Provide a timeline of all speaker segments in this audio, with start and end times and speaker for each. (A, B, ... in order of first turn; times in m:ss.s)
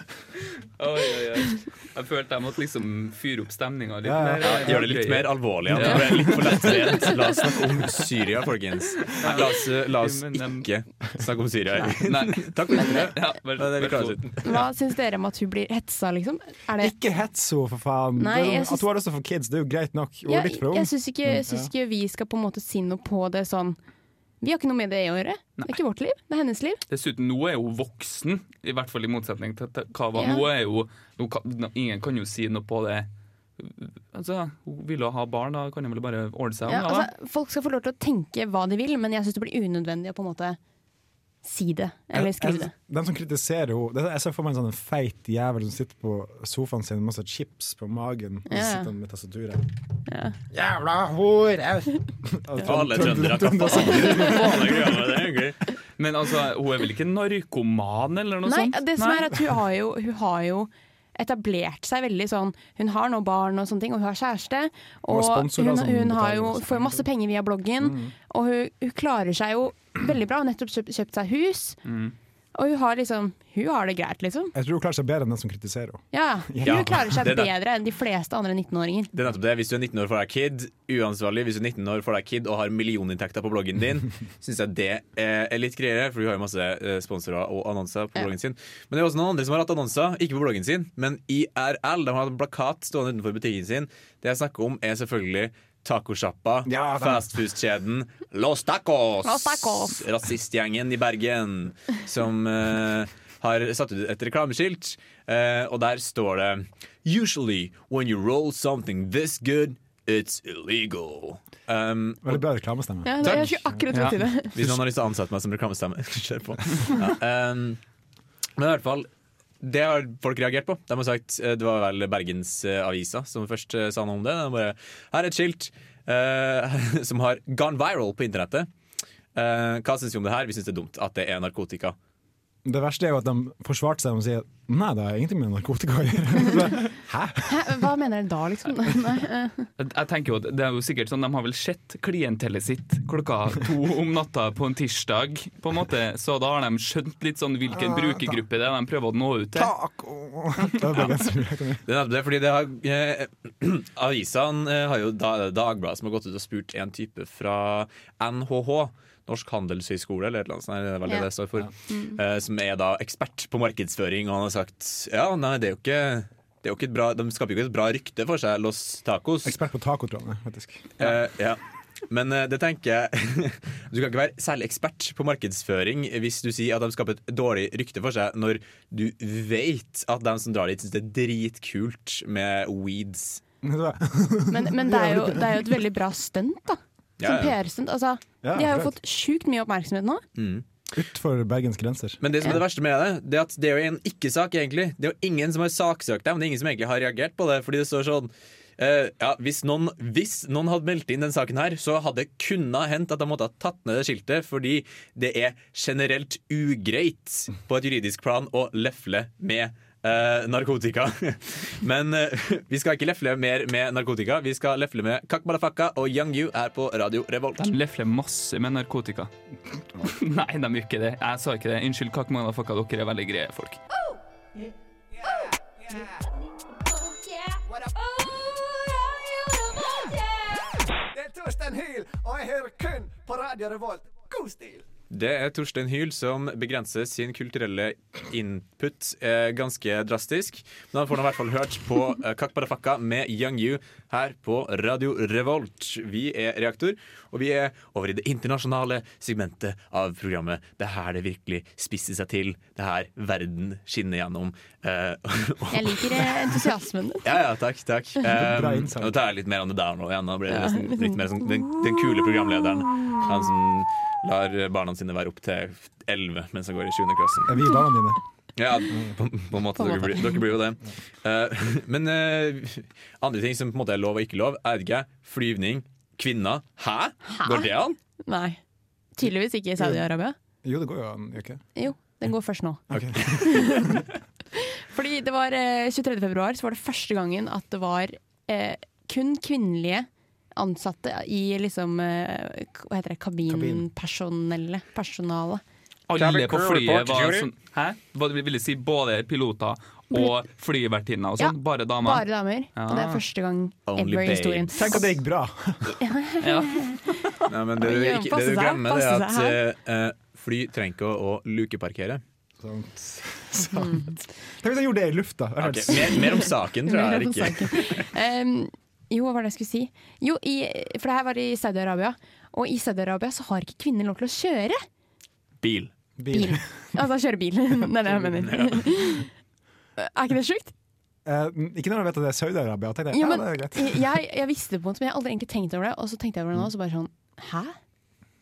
0:00.8-0:06.4 A
0:04.0-0:04.9 B
0:04.4-0:14.7 C
0:05.7-0:06.6 B
0:06.6-0:07.5 D
0:09.2-0:10.7 A
0:12.1-0:14.4 A
0:14.4-0:16.9 D
0:16.8-0:21.7 B
0:18.2-0:18.8 D
0:20.3-0:23.8 D
0:24.4-0:26.8 D
0:26.9-0:33.1 A
0:30.2-0:30.4 D
0:33.6-0:37.1 A
0:36.7-0:40.6 D
0:41.4-0:42.7 D
0:42.1-0:49.6 B
0:48.5-0:48.9 D
0:50.1-0:50.4 D
0:50.5-0:54.9 B
0:52.6-0:55.6 C
0:54.0-0:54.4 D
0:56.0-0:59.3 A
0:58.5-1:11.8 D
1:05.1-1:07.1 B
1:07.8-1:08.1 B
1:11.8-1:12.1 A
1:12.6-1:14.5 D
1:14.5-1:17.3 B
1:16.1-1:19.1 D
1:16.6-1:17.5 C
1:19.1-1:52.4 C
1:36.7-1:37.2 B
1:39.2-1:40.0 D
1:52.2-1:53.8 B
1:53.0-1:54.6 D
1:53.2-1:53.7 C
1:54.5-1:57.8 C
1:58.6-1:59.1 C
1:59.6-2:08.7 C
2:09.4-2:12.0 C
2:12.6-2:17.8 B
2:17.5-2:19.7 D
2:19.8-2:29.7 A
2:27.7-2:28.3 B
2:29.6-2:31.8 B
2:30.7-2:31.1 A
2:31.8-2:49.6 C
2:41.9-2:42.2 D
2:49.4-2:50.9 B
2:51.0-3:03.4 C
3:03.6-3:05.8 B
3:04.5-3:10.2 D
3:07.2-3:07.6 C
3:08.4-3:08.9 B
3:10.4-3:10.6 C
3:10.9-3:12.2 B
3:12.2-3:37.8 C
3:37.6-3:39.3 A
3:40.0-3:43.8 A
3:45.2-3:46.1 E
3:47.7-3:48.3 E
3:51.1-3:54.8 E
3:55.1-4:16.4 C
4:15.7-4:17.2 D
4:17.2-4:27.6 C
4:18.2-4:19.2 B
4:20.5-4:22.3 D
4:27.5-4:28.2 B
4:28.6-4:38.0 C
4:28.9-4:29.2 B
4:29.8-4:30.3 D
4:37.3-4:38.6 D
4:39.2-4:40.4 D
4:40.6-4:41.6 B
4:41.8-4:44.0 D
4:42.9-4:44.0 B
4:44.6-4:55.6 D
4:53.5-4:53.9 B
4:56.1-5:03.2 A
4:56.2-4:57.5 C
5:01.4-5:05.0 D
5:03.9-5:05.0 C
5:04.7-5:05.8 B
5:06.0-5:07.0 D
5:06.4-5:06.9 A
5:07.5-5:12.2 C
5:07.8-5:09.6 D
5:12.6-5:16.5 B
5:13.7-5:14.1 D
5:15.6-5:18.1 C
5:16.0-5:24.8 D
5:25.6-5:25.9 C
5:26.2-5:27.0 B
5:26.3-5:29.3 D
5:28.4-5:28.9 C
5:30.0-5:30.7 D
5:31.2-5:34.1 B
5:33.1-5:37.8 D